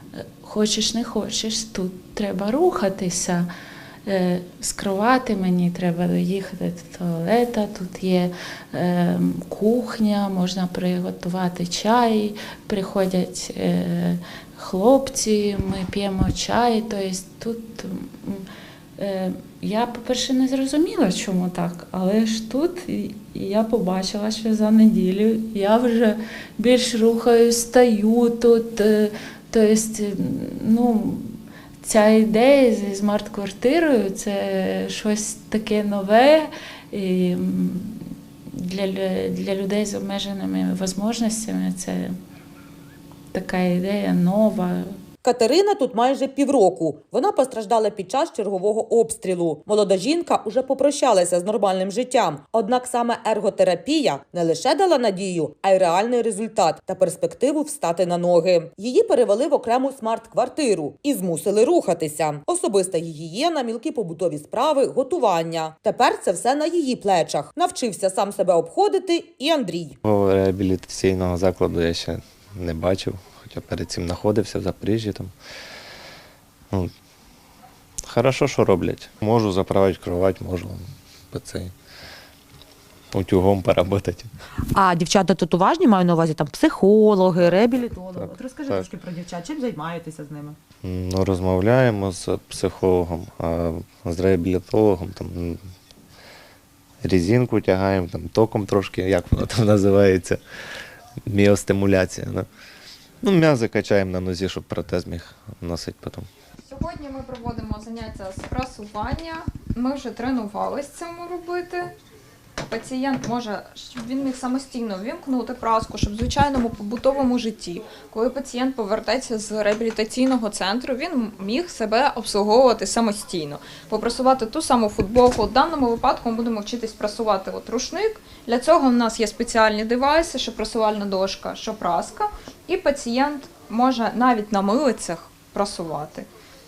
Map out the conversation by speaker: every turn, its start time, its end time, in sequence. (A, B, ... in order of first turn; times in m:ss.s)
0:00.4-0:03.5 A
0:04.1-0:18.4 A
0:19.0-0:38.0 A
0:38.6-0:42.2 A
0:43.3-0:44.9 A
0:45.2-1:10.0 B
1:10.0-1:15.3 C
1:18.1-1:21.7 C
1:23.1-1:24.3 C
1:24.8-1:27.4 D
1:24.8-1:25.1 B
1:26.0-1:26.6 B
1:27.2-1:30.6 B
1:28.2-1:28.9 C
1:30.8-1:35.6 C
1:37.0-1:40.4 C
1:41.3-1:42.5 C
1:43.2-1:46.3 C
1:46.7-1:51.9 E
1:52.6-2:16.3 E